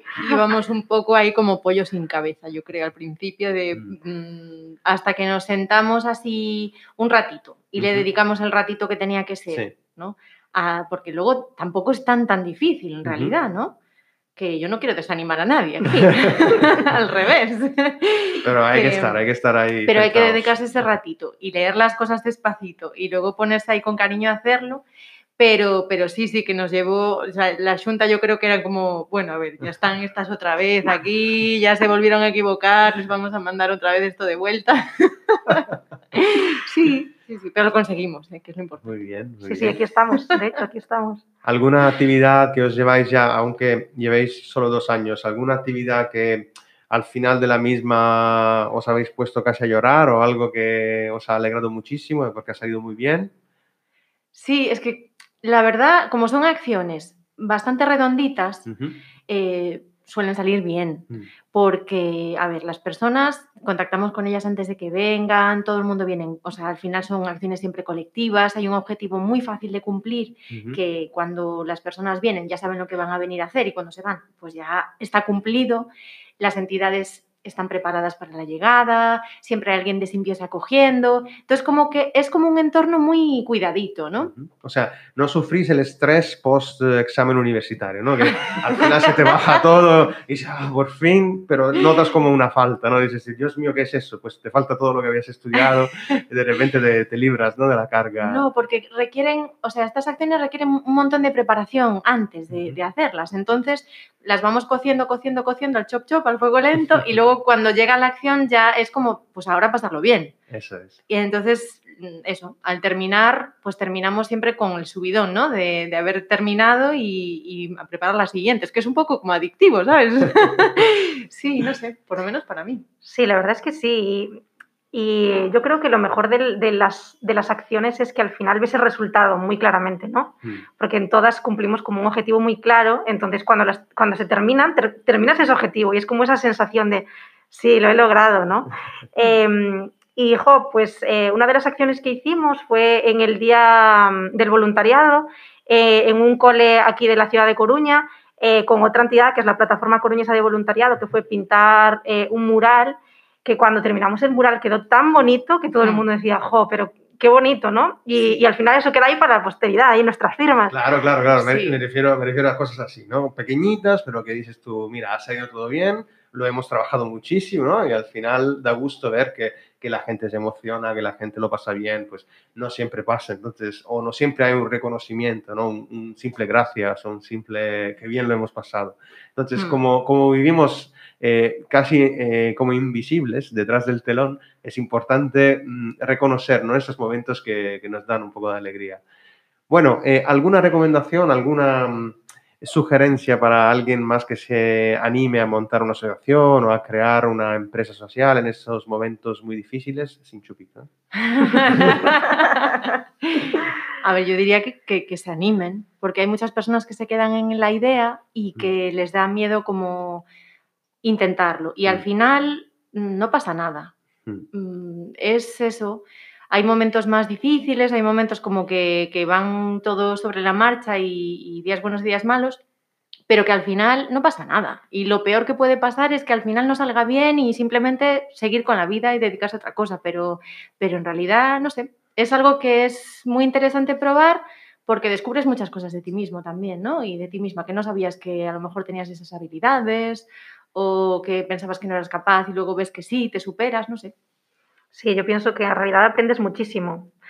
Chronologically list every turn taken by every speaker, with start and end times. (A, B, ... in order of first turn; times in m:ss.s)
0:00.2-0:13.8 A
0:07.8-0:08.0 B
0:13.0-0:13.4 B
0:14.4-0:19.2 A
0:18.4-0:20.5 B
0:19.9-0:24.8 A
0:25.4-0:38.9 A
0:38.8-0:39.8 B
0:39.4-0:41.2 C
0:41.4-0:53.3 B
0:54.4-0:58.7 A
0:58.7-0:59.0 B
0:59.3-1:15.9 A
1:10.5-1:10.8 B
1:16.4-1:24.3 A
1:24.2-1:38.4 B
1:38.2-1:50.4 A
1:50.5-1:51.0 B
1:51.1-2:02.8 A
2:03.0-2:04.4 C
2:04.9-2:40.8 C
2:38.2-2:38.4 A
2:40.7-3:09.0 B
2:41.4-2:41.8 A
3:09.7-3:20.9 B
3:21.2-3:30.3 A
3:21.7-3:22.1 B
3:31.0-3:33.9 A
3:34.5-3:42.6 A
3:43.3-4:04.1 A
4:04.9-4:07.1 C